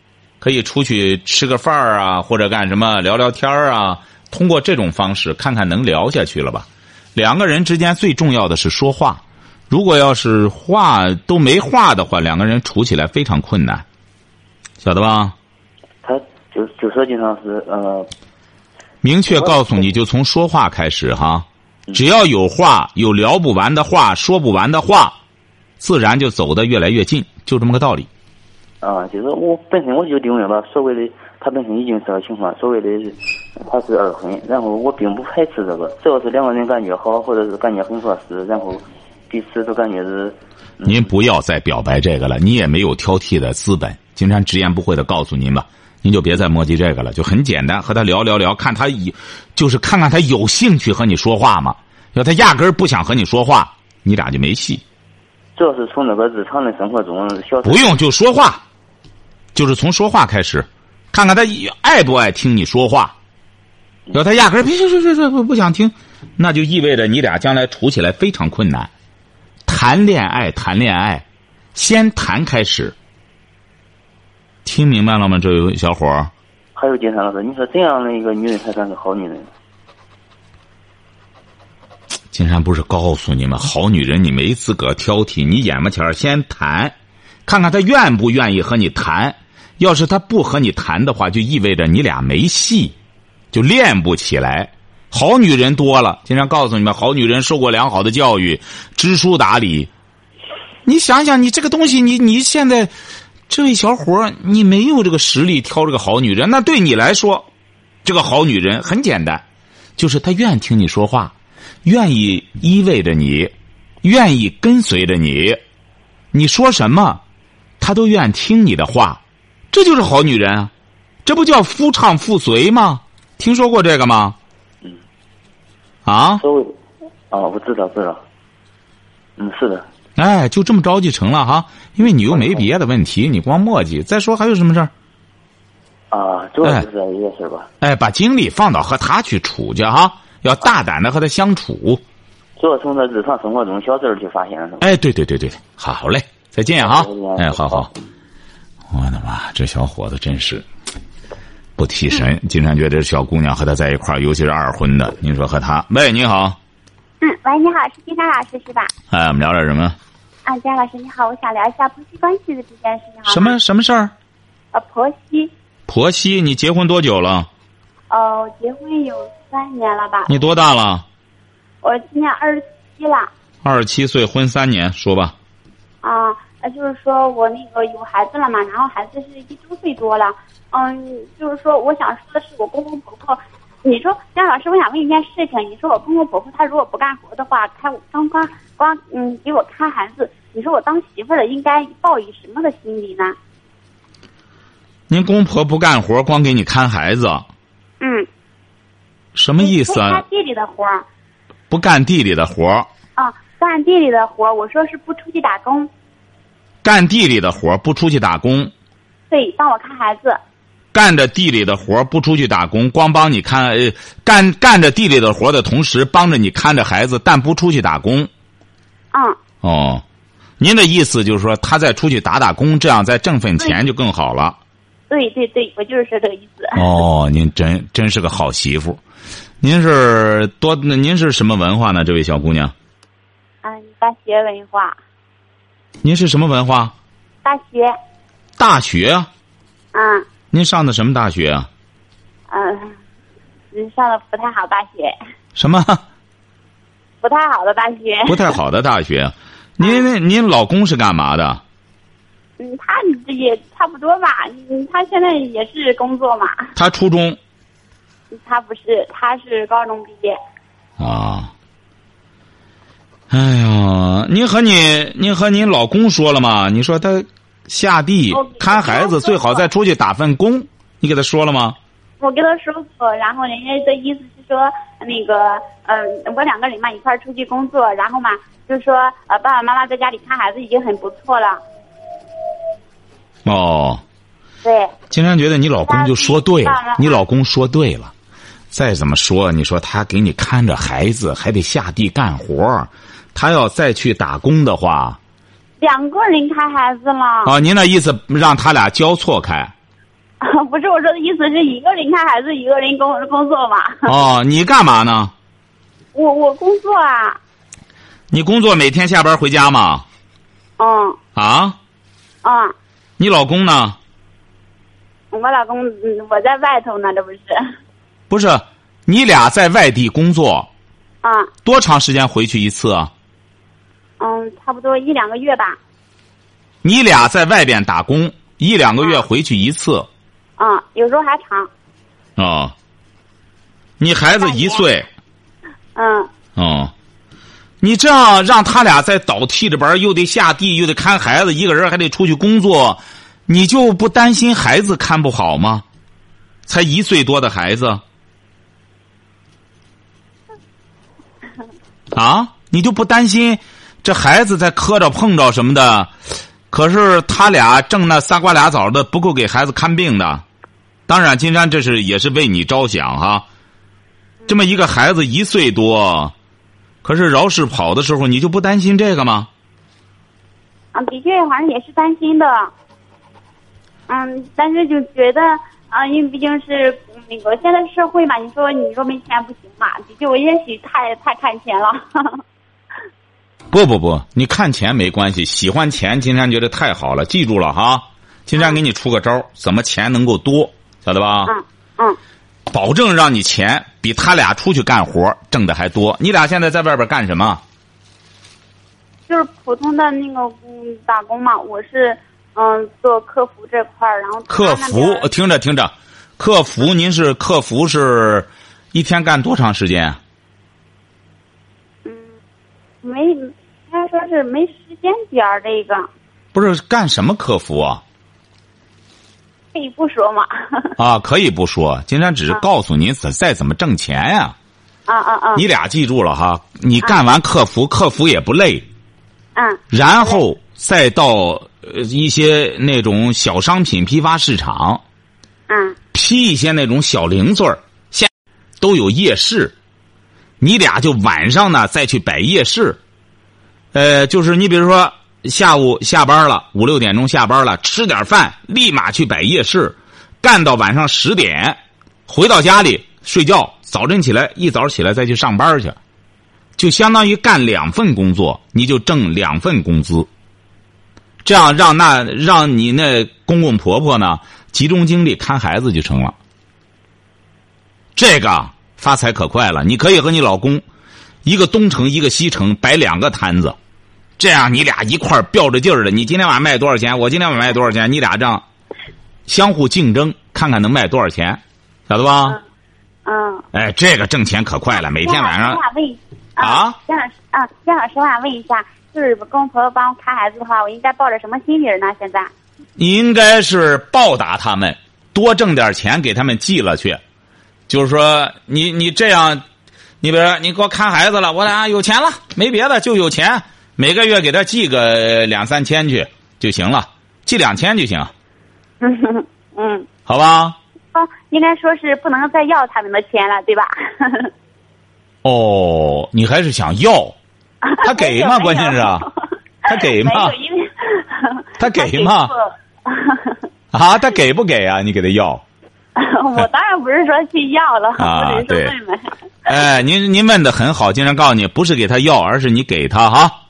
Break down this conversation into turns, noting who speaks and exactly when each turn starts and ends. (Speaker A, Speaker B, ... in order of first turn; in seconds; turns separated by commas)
Speaker A: 0.4-13.8, Speaker A: 14.8-15.3, Speaker B: 16.0-18.1, Speaker A: 19.0-25.1, Speaker B: 19.3-19.8, Speaker A: 25.8-28.1, Speaker B: 28.8-41.1, Speaker A: 40.8-54.8, Speaker B: 55.5-57.9, Speaker A: 57.6-58.6, Speaker A: 59.5-63.1, Speaker A: 64.1-68.9, Speaker A: 69.7-72.9, Speaker A: 74.6-76.3, Speaker B: 76.8-79.5, Speaker A: 82.3-86.9, Speaker A: 87.5-92.9, Speaker A: 93.5-99.9, Speaker A: 100.8-102.9, Speaker A: 103.5-107.5, Speaker A: 108.0-109.4, Speaker A: 110.0-115.6, Speaker A: 116.3-117.2, Speaker A: 117.8-120.7, Speaker A: 121.2-124.4, Speaker A: 126.0-126.4, Speaker B: 126.4-126.8, Speaker B: 127.3-128.2, Speaker B: 129.4-129.9, Speaker A: 130.2-134.9, Speaker B: 132.2-132.6, Speaker B: 136.1-137.7, Speaker A: 137.8-142.0, Speaker B: 142.6-144.9, Speaker A: 144.8-147.9, Speaker B: 146.8-147.9, Speaker A: 148.9-150.7, Speaker A: 151.8-156.6, Speaker C: 157.2-158.9, Speaker A: 159.1-160.0, Speaker C: 160.4-163.6, Speaker A: 163.3-164.1, Speaker C: 164.7-165.5, Speaker A: 165.9-167.5, Speaker C: 168.1-170.3, Speaker A: 170.3-171.1, Speaker C: 171.8-173.3, Speaker A: 173.6-175.3, Speaker C: 176.0-193.4, Speaker A: 195.1-197.5, Speaker C: 198.0-198.3, Speaker A: 199.3-200.2, Speaker C: 199.6-201.1, Speaker A: 201.7-202.9, Speaker C: 203.2-205.9, Speaker A: 206.8-208.7, Speaker C: 209.3-210.4, Speaker A: 210.9-218.3, Speaker C: 219.1-219.4, Speaker A: 219.6-220.0, Speaker A: 220.6-224.6, Speaker C: 225.1-226.9, Speaker A: 226.8-229.0, Speaker A: 229.6-232.7, Speaker C: 233.6-235.0, Speaker A: 236.0-236.9, Speaker C: 237.4-238.0, Speaker A: 238.6-239.3, Speaker C: 239.9-240.3, Speaker A: 240.5-241.7, Speaker C: 242.5-243.0, Speaker C: 243.7-245.2, Speaker A: 245.6-246.0, Speaker C: 247.2-248.6, Speaker A: 248.3-251.6, Speaker C: 249.8-250.1, Speaker C: 252.6-256.7, Speaker A: 256.7-257.4, Speaker C: 258.3-260.4, Speaker A: 261.0-261.5, Speaker A: 263.3-271.8, Speaker C: 268.3-269.6, Speaker C: 272.2-281.6, Speaker A: 283.4-284.0, Speaker C: 284.6-284.9, Speaker A: 285.1-288.1, Speaker C: 285.8-287.2, Speaker A: 288.7-295.2, Speaker C: 295.8-297.5, Speaker A: 297.4-299.7, Speaker C: 300.4-304.1, Speaker A: 304.1-305.3, Speaker C: 306.1-307.4, Speaker A: 308.3-310.1, Speaker C: 310.8-311.2, Speaker A: 311.4-311.8, Speaker C: 312.4-312.7, Speaker A: 313.2-314.0, Speaker C: 315.3-317.6, Speaker A: 318.3-320.7, Speaker C: 321.2-321.5, Speaker A: 321.6-323.1, Speaker C: 324.2-325.8, Speaker A: 326.8-330.1, Speaker C: 330.6-331.7, Speaker A: 332.4-332.7, Speaker A: 334.0-335.1, Speaker C: 334.4-334.9, Speaker C: 335.9-336.3, Speaker A: 336.6-336.9, Speaker A: 337.8-345.8, Speaker A: 346.7-348.0, Speaker A: 352.1-356.1, Speaker A: 356.7-360.4, Speaker A: 361.1-363.4, Speaker A: 364.5-366.3, Speaker A: 367.0-369.5, Speaker C: 370.9-372.7, Speaker C: 374.1-382.4, Speaker A: 383.7-391.5, Speaker C: 391.4-392.2, Speaker A: 392.7-397.6, Speaker C: 399.3-405.3, Speaker A: 404.5-410.2, Speaker C: 412.1-412.3, Speaker C: 413.0-416.1, Speaker A: 416.5-418.0, Speaker C: 419.7-420.9, Speaker A: 421.0-424.6, Speaker C: 425.1-425.6, Speaker A: 425.6-428.9, Speaker C: 429.6-430.4, Speaker A: 429.9-435.0, Speaker C: 435.7-436.0, Speaker A: 436.1-439.7, Speaker A: 440.6-443.0, Speaker A: 443.9-456.0, Speaker A: 456.8-460.3, Speaker A: 461.4-466.4, Speaker A: 468.1-470.8, Speaker A: 471.4-473.8, Speaker A: 474.4-478.6, Speaker A: 479.5-482.6, Speaker C: 483.2-483.6, Speaker A: 483.7-485.8, Speaker C: 485.2-492.5, Speaker A: 486.6-487.0, Speaker A: 493.0-497.2, Speaker A: 497.9-499.6, Speaker A: 500.2-508.3, Speaker C: 509.0-510.1, Speaker A: 510.2-510.8, Speaker C: 511.1-514.5, Speaker A: 515.4-517.4, Speaker C: 517.8-519.3, Speaker A: 518.0-519.2, Speaker C: 519.8-523.6, Speaker A: 519.8-520.5, Speaker A: 521.8-522.5, Speaker A: 523.9-525.6, Speaker C: 526.1-529.8, Speaker A: 528.2-528.9, Speaker A: 529.6-533.6